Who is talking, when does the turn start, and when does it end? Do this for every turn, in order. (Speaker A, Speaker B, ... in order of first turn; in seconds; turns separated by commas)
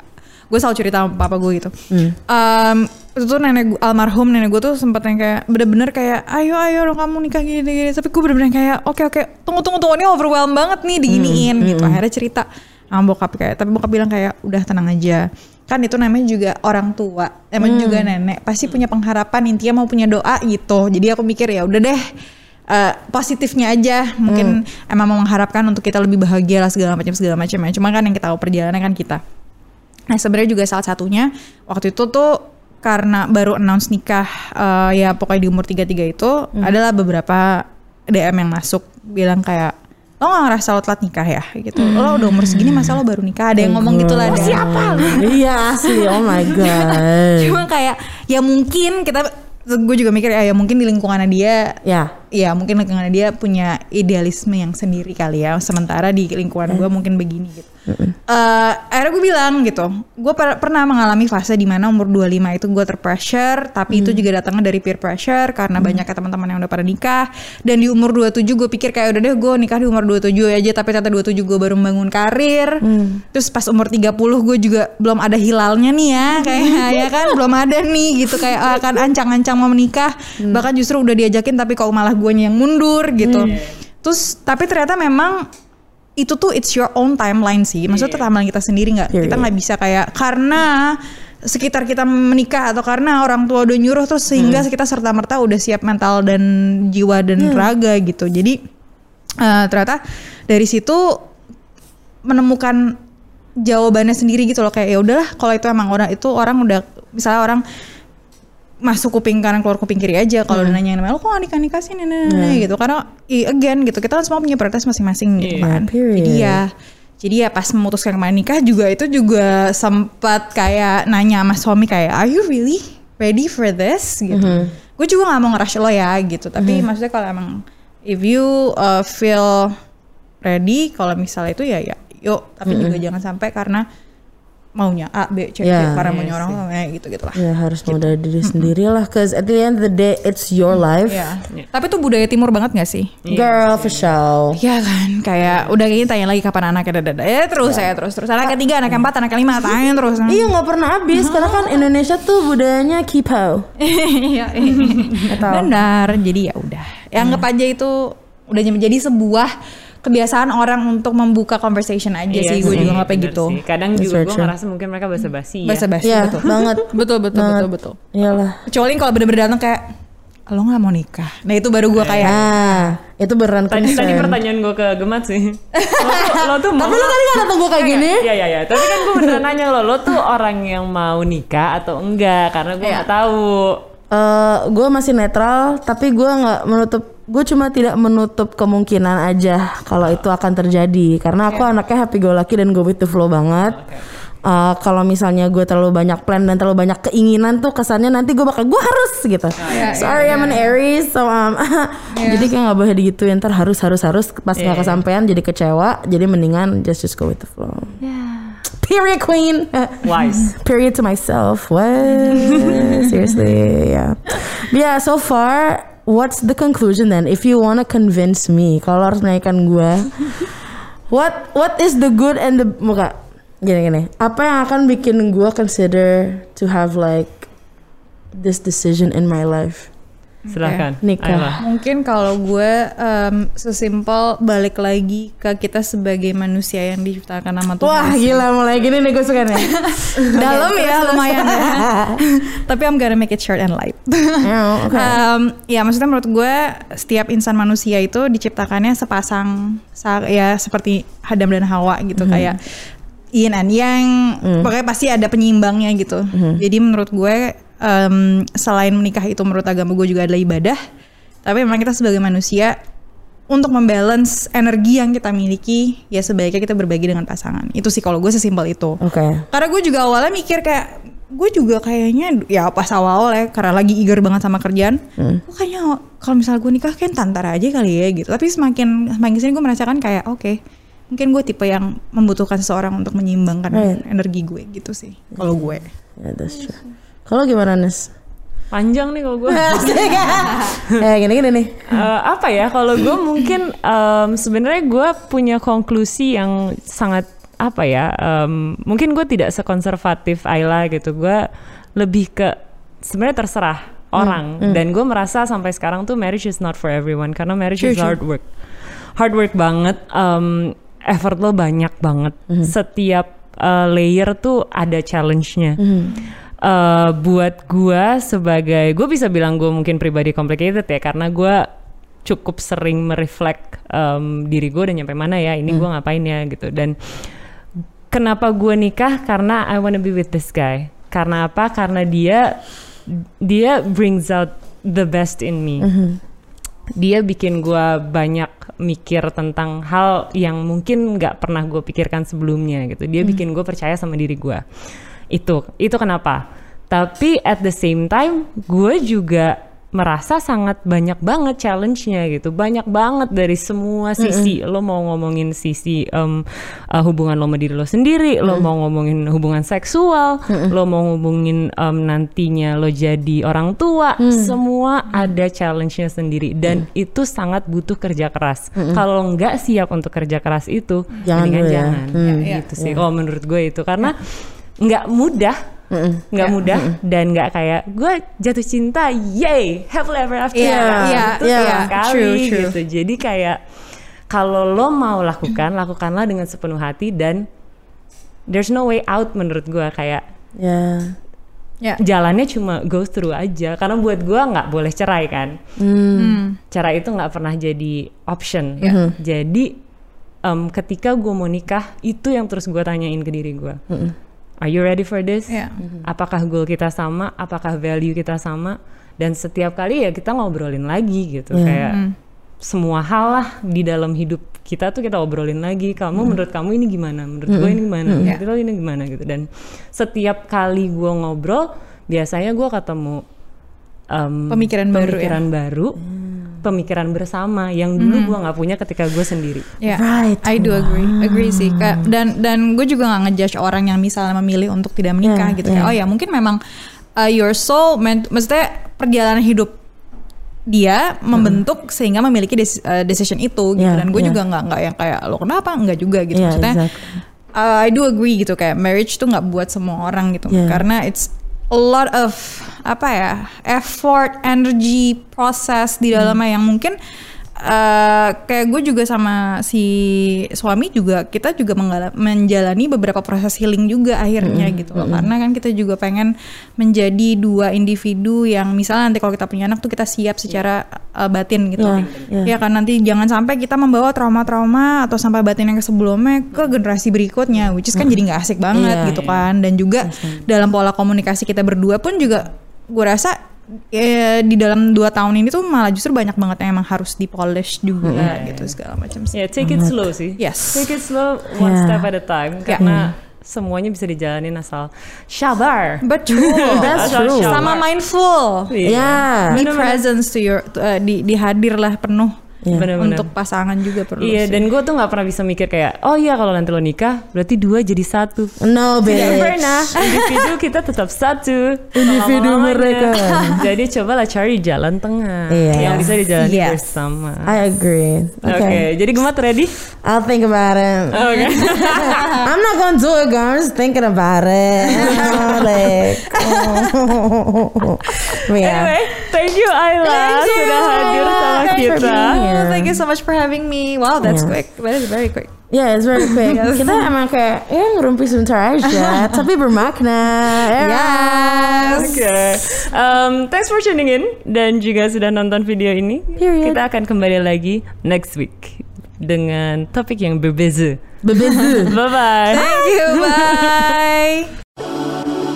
Speaker A: 0.5-1.7, Speaker B: 1.9-2.2, Speaker A: 2.3-22.0, Speaker B: 11.1-12.0, Speaker B: 17.6-18.1, Speaker A: 22.7-29.2, Speaker B: 24.3-24.6, Speaker A: 30.1-51.8, Speaker B: 41.8-43.0, Speaker B: 43.6-47.6, Speaker C: 44.3-45.3, Speaker B: 51.9-52.1, Speaker A: 52.3-57.7, Speaker B: 57.9-58.2, Speaker A: 58.3-85.5, Speaker B: 63.9-64.2, Speaker B: 65.8-66.0, Speaker B: 72.8-73.2, Speaker B: 76.4-77.1, Speaker B: 80.4-80.7, Speaker B: 83.2-83.5, Speaker C: 83.4-83.8, Speaker A: 86.2-98.6, Speaker C: 87.9-88.3, Speaker B: 89.1-89.5, Speaker B: 94.3-94.7, Speaker B: 97.4-97.7, Speaker A: 99.4-101.2, Speaker A: 102.2-103.0, Speaker A: 103.6-107.6, Speaker A: 108.8-116.7, Speaker B: 110.5-110.8, Speaker B: 112.3-112.7, Speaker C: 115.4-115.7, Speaker B: 115.6-116.6, Speaker A: 117.2-129.8, Speaker B: 124.3-124.7, Speaker B: 126.6-126.9, Speaker A: 130.4-133.8, Speaker B: 132.7-133.0, Speaker A: 134.8-138.7, Speaker B: 135.6-136.1, Speaker C: 136.0-136.6, Speaker B: 137.3-141.3, Speaker A: 141.1-143.2, Speaker C: 143.2-144.1, Speaker B: 143.3-144.6, Speaker A: 144.6-150.5, Speaker B: 150.3-153.7, Speaker A: 151.1-151.8, Speaker A: 153.8-159.5, Speaker C: 154.8-155.2, Speaker B: 155.3-155.7, Speaker B: 157.2-157.4, Speaker A: 160.0-163.6, Speaker C: 162.3-165.9, Speaker B: 162.6-163.0, Speaker B: 163.9-164.5, Speaker A: 165.7-168.0, Speaker B: 166.0-168.6, Speaker A: 168.7-169.8, Speaker A: 170.5-172.7, Speaker C: 172.0-172.4, Speaker B: 172.2-174.4, Speaker C: 173.7-183.8, Speaker A: 175.8-176.4, Speaker B: 176.2-179.3, Speaker B: 184.1-193.8, Speaker C: 193.6-194.0, Speaker B: 194.4-208.0, Speaker C: 199.6-200.6, Speaker A: 199.7-200.7, Speaker A: 202.2-202.5, Speaker C: 204.6-205.0, Speaker C: 208.0-208.6, Speaker B: 208.7-227.5, Speaker C: 210.0-210.5, Speaker C: 212.4-212.7, Speaker A: 212.5-212.9, Speaker B: 228.3-229.9, Speaker A: 230.5-230.8, Speaker C: 230.5-231.6, Speaker B: 231.0-231.6, Speaker A: 231.6-238.5, Speaker B: 237.8-242.2, Speaker A: 239.5-252.6, Speaker B: 244.4-245.2, Speaker B: 252.2-252.6, Speaker A: 253.3-260.8, Speaker B: 254.4-254.7, Speaker B: 256.3-256.6, Speaker A: 261.4-262.8, Speaker A: 263.5-280.6, Speaker B: 269.0-269.4, Speaker B: 275.2-275.4, Speaker A: 281.1-285.9, Speaker B: 283.7-284.0, Speaker B: 285.4-288.1, Speaker C: 288.7-290.9, Speaker B: 289.5-292.0, Speaker A: 290.2-290.7, Speaker C: 291.9-301.4, Speaker C: 302.0-308.5, Speaker B: 304.2-304.8, Speaker A: 307.8-308.2, Speaker C: 309.2-315.8, Speaker B: 315.8-316.1, Speaker C: 316.6-321.7, Speaker C: 322.2-326.9, Speaker C: 328.1-335.9, Speaker B: 335.8-336.2, Speaker C: 337.0-344.6, Speaker C: 345.3-374.3, Speaker B: 354.2-354.6, Speaker B: 360.5-360.8, Speaker B: 364.2-364.5, Speaker B: 368.8-369.0, Speaker B: 371.2-373.0, Speaker A: 372.2-372.7, Speaker C: 374.8-375.6, Speaker B: 375.9-377.0, Speaker C: 376.3-383.6, Speaker A: 380.6-382.8, Speaker B: 380.6-381.9, Speaker C: 384.3-387.4, Speaker C: 388.5-390.2, Speaker B: 390.6-391.1, Speaker C: 392.0-395.6, Speaker B: 395.8-396.4, Speaker A: 396.1-396.6, Speaker C: 396.7-399.8, Speaker B: 398.8-399.2, Speaker C: 400.4-403.8, Speaker B: 403.9-404.1, Speaker C: 404.6-412.0, Speaker A: 405.5-405.8, Speaker B: 411.5-411.8, Speaker A: 411.8-412.1, Speaker C: 412.6-423.2, Speaker B: 417.5-418.3, Speaker C: 424.1-426.0, Speaker A: 424.5-425.4, Speaker B: 426.1-426.6, Speaker C: 426.6-429.7, Speaker A: 428.0-428.4, Speaker A: 429.8-436.6, Speaker B: 429.9-432.1, Speaker B: 435.2-436.0, Speaker A: 437.2-439.7, Speaker A: 440.7-446.9, Speaker B: 441.3-441.6, Speaker B: 443.8-444.4, Speaker B: 446.3-447.2, Speaker A: 447.6-457.0, Speaker B: 450.5-450.8, Speaker A: 457.6-483.4, Speaker B: 464.4-465.3, Speaker B: 471.8-472.5, Speaker C: 471.8-472.4, Speaker B: 478.7-479.2, Speaker C: 479.0-479.4, Speaker B: 480.0-480.4, Speaker A: 483.9-489.4, Speaker B: 488.0-488.3, Speaker C: 488.1-488.7, Speaker C: 489.3-497.9, Speaker B: 489.6-490.1, Speaker A: 490.4-490.9, Speaker B: 491.6-492.1, Speaker B: 492.8-493.1, Speaker A: 496.0-498.7, Speaker B: 496.8-497.7, Speaker C: 498.7-500.0, Speaker B: 498.8-499.6, Speaker A: 499.5-502.4, Speaker B: 502.6-502.9, Speaker C: 502.7-503.3, Speaker A: 503.0-504.7, Speaker C: 504.2-517.6, Speaker B: 508.6-509.9, Speaker A: 509.1-510.5, Speaker B: 511.9-513.6, Speaker A: 513.2-513.7, Speaker B: 515.5-516.1, Speaker A: 515.7-516.8, Speaker B: 517.5-518.9, Speaker C: 518.4-519.7, Speaker B: 520.0-529.0, Speaker C: 521.1-522.3, Speaker A: 521.3-522.5, Speaker A: 524.8-527.1, Speaker C: 528.5-532.5, Speaker A: 530.0-535.5, Speaker B: 531.6-533.0, Speaker B: 534.2-534.6, Speaker B: 535.7-542.2, Speaker A: 536.1-537.1, Speaker A: 538.8-539.4, Speaker A: 540.5-542.3, Speaker C: 541.8-554.0, Speaker B: 546.4-546.8, Speaker B: 551.2-552.0, Speaker A: 551.5-551.9, Speaker A: 552.5-554.5